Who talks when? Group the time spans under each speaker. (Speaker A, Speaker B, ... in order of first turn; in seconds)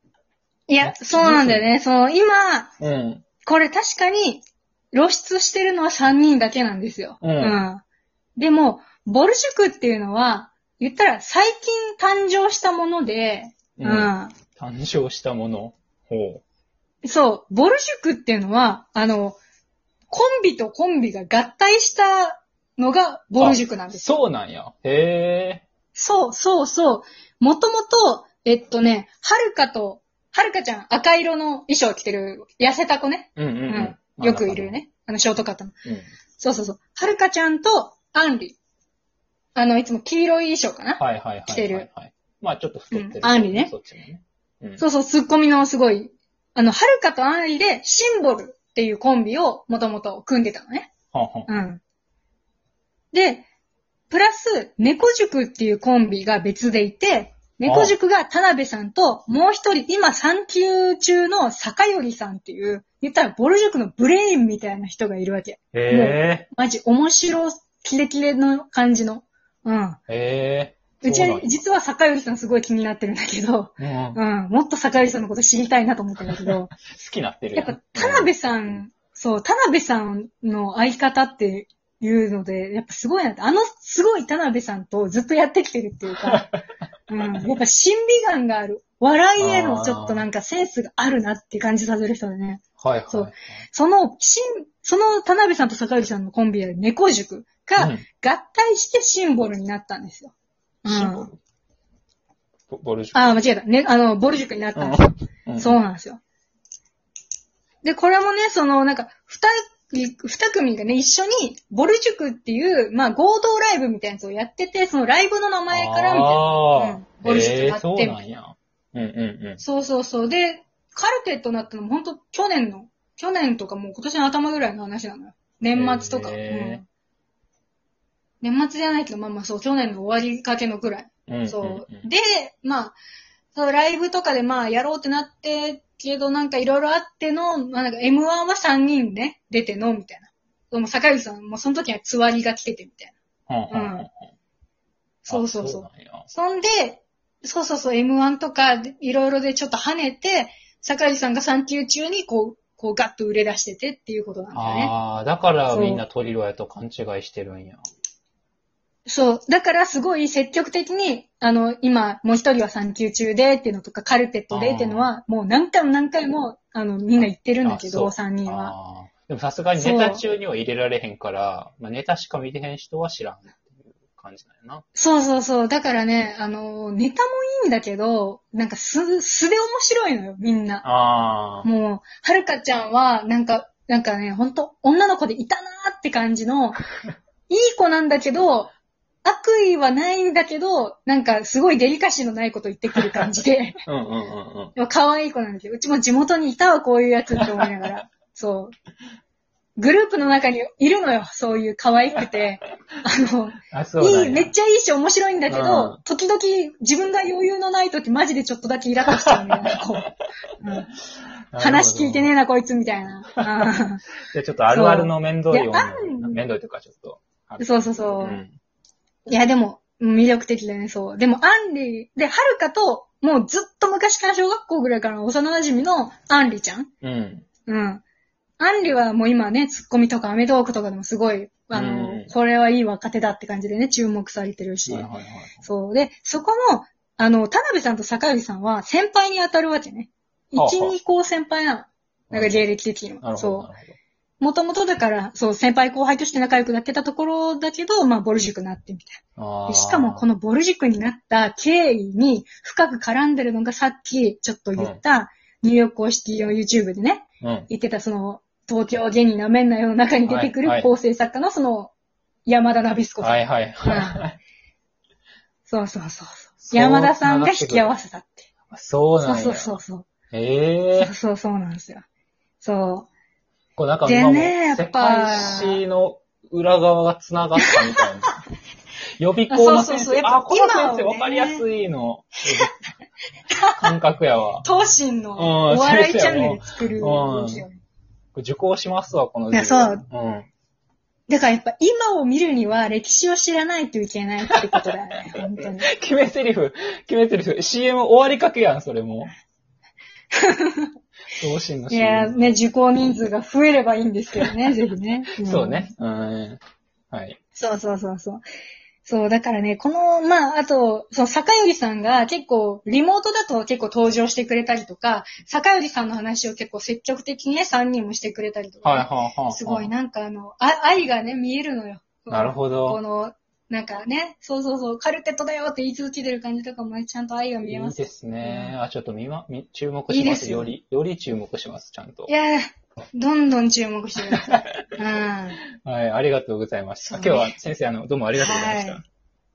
Speaker A: 0.7-2.7, 3.4-7.8, 8.3-14.3, 17.0-19.4, 20.1-24.1, 25.9-35.7, 36.4-38.6, 39.5-41.9, 42.9-43.7, 44.8-50.9, 51.5-51.8, 53.1-53.5, 54.1-70.0, 71.0-76.7, 77.5-86.5, 87.1-100.3, 100.8-101.3, 103.1-106.2, 107.8-118.2, 119.6-126.8, 128.4-133.0, 133.5-143.1, 143.7-144.1, 145.2-154.9, 155.7-156.0, 159.1-168.7, 169.7-170.2, 174.9-180.8, 181.6-186.8, 187.5-188.7, 189.2-193.8, 194.8-198.7, 199.8-210.1, 210.6-210.9, 211.6-214.0, 214.7-216.4, 217.6-218.4, 219.3-226.9, 227.7-228.0, 228.6-235.1, 235.6-243.7, 244.4-261.9, 262.4-264.2, 265.6-268.5, 269.2-270.1, 270.9-272.0, 272.6-273.1, 274.0-275.8, 277.6-278.0, 279.5-281.6, 283.5-283.8, 284.6-287.8, 289.5-290.0, 291.3-295.9, 300.3-300.9, 301.9-305.9, 307.6-308.4, 309.0-328.7, 330.1-330.7, 332.3-335.6, 337.1-337.5, 338.4-339.0
Speaker B: 0.8-1.7, 2.8-3.2, 7.2-7.6, 13.8-16.4, 23.4-25.6, 33.4-34.8, 41.0-44.8, 51.1-51.5, 57.6-58.0, 65.7-66.5, 70.1-71.5, 73.8-74.2, 76.4-78.3, 86.2-86.5, 89.4-90.2, 92.8-93.5, 97.8-98.0, 100.8-101.4, 102.7-103.4, 104.7-105.8, 115.7-119.6, 125.7-126.8, 131.3-132.1, 143.5-144.2, 145.3-146.3, 154.5-157.8, 164.5-165.1, 167.2-174.8, 180.8-181.7, 193.8-194.7, 197.3-197.7, 203.7-204.5, 205.5-206.0, 209.2-209.6, 211.5-212.3, 214.3-218.5, 227.0-227.4, 231.7-232.3, 234.9-235.6, 240.5-240.9, 242.3-242.6, 243.2-243.9, 249.4-250.2, 257.4-257.7, 260.3-260.9, 263.2-264.4, 266.6-267.9, 268.7-269.8, 270.3-271.1, 273.8-278.4, 279.2-282.7, 283.8-284.6, 285.4-287.7, 288.3-290.5, 294.5-294.9, 295.6-299.3, 301.4-302.6, 305.4-306.6, 307.1-307.4, 318.8-319.9, 322.3-323.0, 327.6-332.3, 335.8-339.0